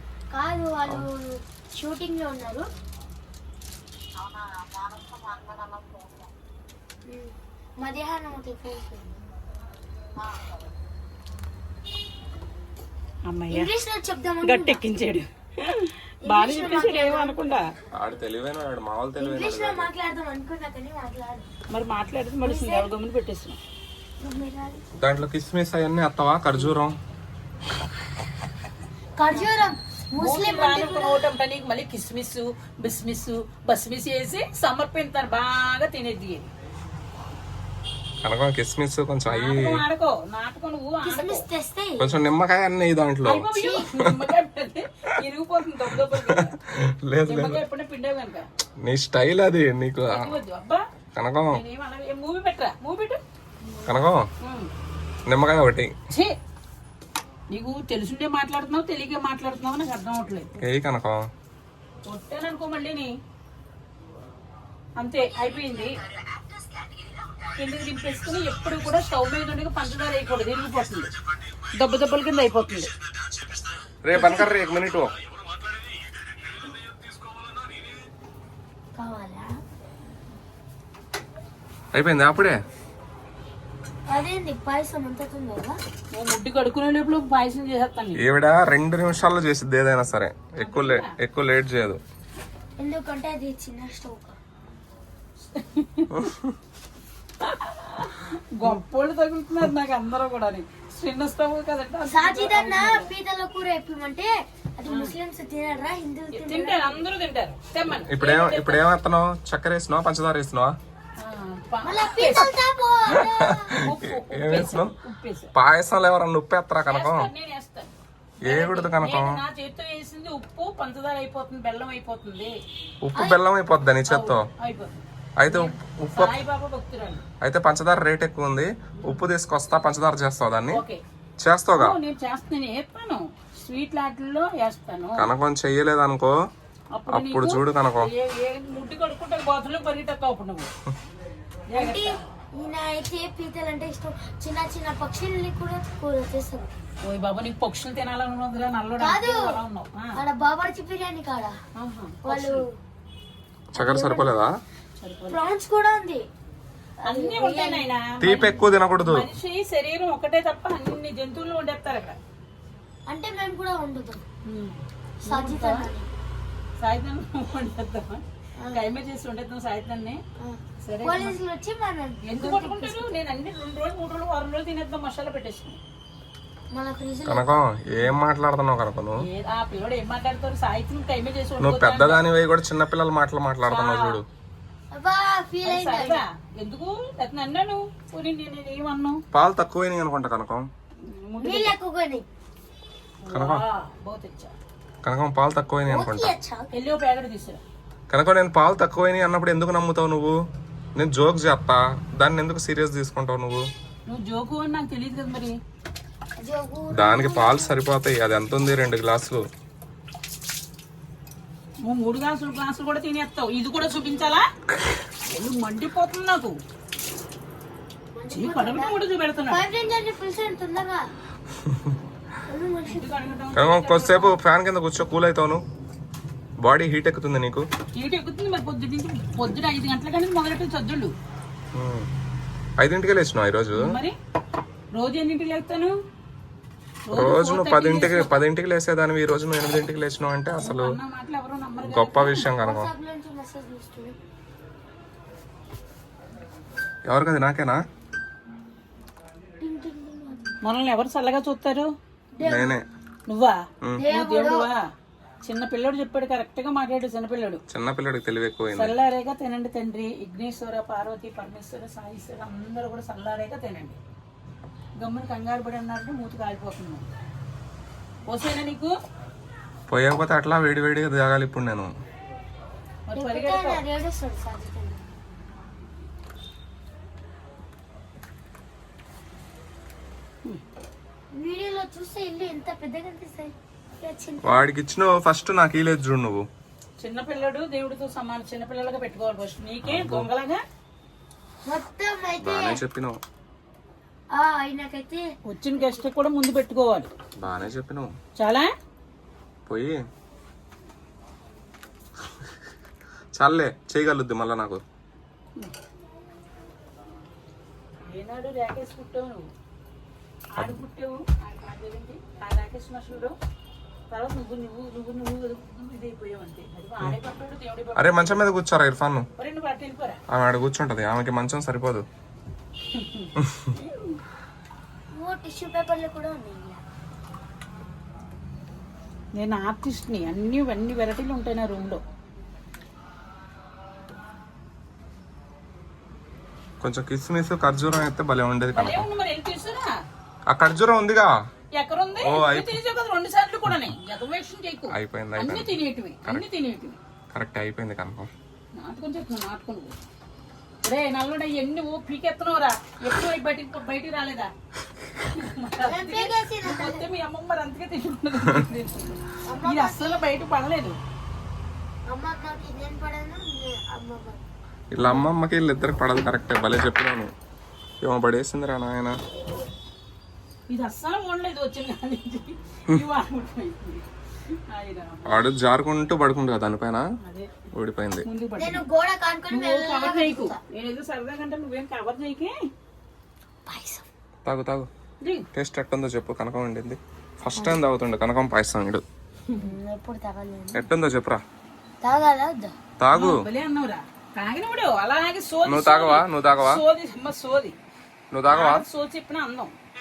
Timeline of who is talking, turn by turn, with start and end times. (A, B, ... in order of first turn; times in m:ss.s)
0:00.3-0:02.7 A
0:07.1-0:09.2 A
0:13.3-0:13.7 B
0:13.5-0:14.8 A
0:14.4-0:17.7 B
0:16.2-0:17.6 A
0:17.9-0:19.9 C
0:19.2-0:21.5 A
0:21.7-0:23.6 B
0:22.4-0:22.9 A
0:24.2-0:24.8 A
0:25.0-0:27.0 C
0:29.2-0:31.3 A
0:30.2-0:36.5 B
0:38.2-0:39.8 C
0:39.3-0:41.4 B
0:41.0-0:42.1 A
0:42.0-0:43.5 C
0:43.2-0:46.6 B
0:43.5-0:43.9 A
0:45.9-0:47.6 C
0:47.3-0:48.4 B
0:48.8-0:50.3 C
0:50.1-0:50.8 B
0:51.2-0:51.6 C
0:51.5-0:53.2 B
0:53.6-0:53.9 A
0:53.9-0:54.3 C
0:54.4-0:54.7 B
0:55.3-0:55.9 C
0:57.5-1:00.5 B
1:00.6-1:01.2 C
1:02.1-1:03.2 B
1:05.0-1:06.0 B
1:05.4-1:05.9 A
1:07.6-1:11.1 B
1:11.7-1:12.9 B
1:14.0-1:15.1 C
1:19.0-1:19.6 A
1:21.9-1:22.6 C
1:24.1-1:25.8 A
1:26.1-1:28.2 B
1:28.2-1:32.0 C
1:30.6-1:31.1 B
1:32.8-1:34.4 A
1:35.5-1:36.3 B
1:36.2-1:36.5 C
1:37.4-1:43.1 B
1:42.1-1:47.0 A
1:46.3-1:48.8 B
1:48.1-1:50.8 C
1:51.2-1:52.5 B
1:51.8-1:53.8 A
1:53.1-1:54.9 C
1:53.8-1:55.5 B
1:55.5-1:57.3 C
1:56.9-1:57.9 B
1:58.4-2:02.6 B
1:58.4-1:59.4 C
2:03.0-2:04.5 C
2:03.2-2:03.4 A
2:04.1-2:07.2 B
2:05.4-2:06.3 C
2:07.4-2:10.8 C
2:10.7-2:11.0 B
2:11.4-2:12.0 C
2:11.8-2:15.3 B
2:15.2-2:16.3 C
2:17.0-2:20.7 B
2:17.1-2:18.1 C
2:21.7-2:22.2 B
2:21.7-2:26.7 A
2:27.0-2:30.2 B
2:29.0-2:29.6 A
2:30.1-2:31.6 A
2:31.8-2:32.6 B
2:32.2-2:32.7 A
2:33.7-2:34.5 C
2:33.8-2:34.3 A
2:35.0-2:35.4 B
2:35.3-2:36.2 A
2:37.0-2:37.9 A
2:37.0-2:42.2 B
2:38.2-2:39.3 C
2:43.1-2:44.2 A
2:44.5-2:45.9 B
2:45.2-2:46.1 A
2:46.8-2:50.2 B
2:50.4-2:53.2 A
2:50.8-2:51.4 B
2:52.2-2:55.8 B
2:56.7-2:57.6 A
2:57.3-2:59.2 C
2:59.2-3:02.2 B
3:01.6-3:04.3 C
3:03.6-3:04.2 B
3:04.9-3:06.2 A
3:05.6-3:09.2 B
3:09.3-3:10.7 C
3:11.1-3:11.8 B
3:11.4-3:12.3 A
3:13.2-3:14.5 B
3:13.3-3:13.6 C
3:15.0-3:16.3 C
3:15.9-3:16.7 A
3:16.7-3:17.6 B
3:18.1-3:20.4 C
3:21.0-3:23.7 C
3:24.1-3:25.6 B
3:26.4-3:27.8 A
3:27.0-3:29.4 C
3:31.8-3:34.5 B
3:33.9-3:34.4 A
3:35.3-3:36.6 B
3:38.1-3:41.1 A
3:38.3-3:39.6 B
3:42.5-3:43.1 A
3:42.9-3:44.3 B
3:43.6-3:45.6 C
3:46.6-3:47.7 C
3:48.0-3:51.1 B
3:51.8-3:52.1 C
3:52.8-3:54.0 C
3:53.7-3:54.2 B
3:54.9-3:56.0 B
3:57.1-3:58.3 B
3:57.1-4:01.0 C
4:00.6-4:02.5 B
4:01.8-4:02.9 C
4:02.4-4:04.2 A
4:07.1-4:07.8 C
4:09.6-4:10.6 A
4:10.6-4:11.9 B
4:12.4-4:12.8 A
4:12.4-4:12.8 C
4:13.3-4:13.6 B
4:14.0-4:14.7 A
4:14.1-4:14.8 B
4:15.4-4:17.6 B
4:17.7-4:19.0 C
4:18.8-4:24.0 B
4:25.0-4:27.1 B
4:28.3-4:29.0 B
4:29.9-4:31.9 C
4:33.1-4:33.8 B
4:33.2-4:35.0 A
4:41.4-4:44.7 A
4:44.4-4:46.5 C
4:47.0-4:50.6 B
4:49.8-4:50.3 C
4:51.7-4:52.8 A
4:52.4-4:53.2 C
4:54.3-4:55.2 A
4:55.5-4:57.1 B
4:57.4-4:58.1 C
4:58.4-4:58.7 B
4:59.7-5:00.0 C
5:03.4-5:04.8 C
5:08.1-5:09.5 B
5:10.5-5:13.4 B
5:14.1-5:18.4 B
5:18.0-5:19.3 C
5:19.4-5:20.2 B
5:20.3-5:22.0 C
5:22.9-5:24.2 B
5:25.2-5:26.8 A
5:29.4-5:32.0 B
5:36.8-5:39.1 C
5:38.7-5:39.9 B
5:40.5-5:41.3 C
5:41.8-5:47.0 B
5:42.2-5:42.8 C
5:44.9-5:46.4 C
5:47.3-5:48.3 C
5:48.8-5:49.9 B
5:50.8-5:54.5 B
5:55.2-6:01.0 B
5:55.8-5:57.1 A
5:59.4-6:00.2 A
6:02.1-6:04.4 A
6:04.9-6:07.3 C
6:05.0-6:05.3 B
6:08.0-6:09.2 C
6:10.7-6:15.4 B
6:15.3-6:17.0 C
6:17.2-6:17.5 B
6:17.7-6:18.3 C
6:18.2-6:18.8 B
6:18.6-6:20.6 A
6:19.5-6:22.6 B
6:23.7-6:24.1 A
6:24.5-6:24.9 C
6:25.2-6:25.5 B
6:25.5-6:29.0 C
6:27.5-6:27.8 A
6:29.6-6:30.8 A
6:30.7-6:31.4 C
6:32.0-6:32.8 A
6:33.0-6:33.4 C
6:33.1-6:37.8 B
6:35.7-6:36.8 C
6:38.3-6:38.8 C
6:38.5-6:39.7 B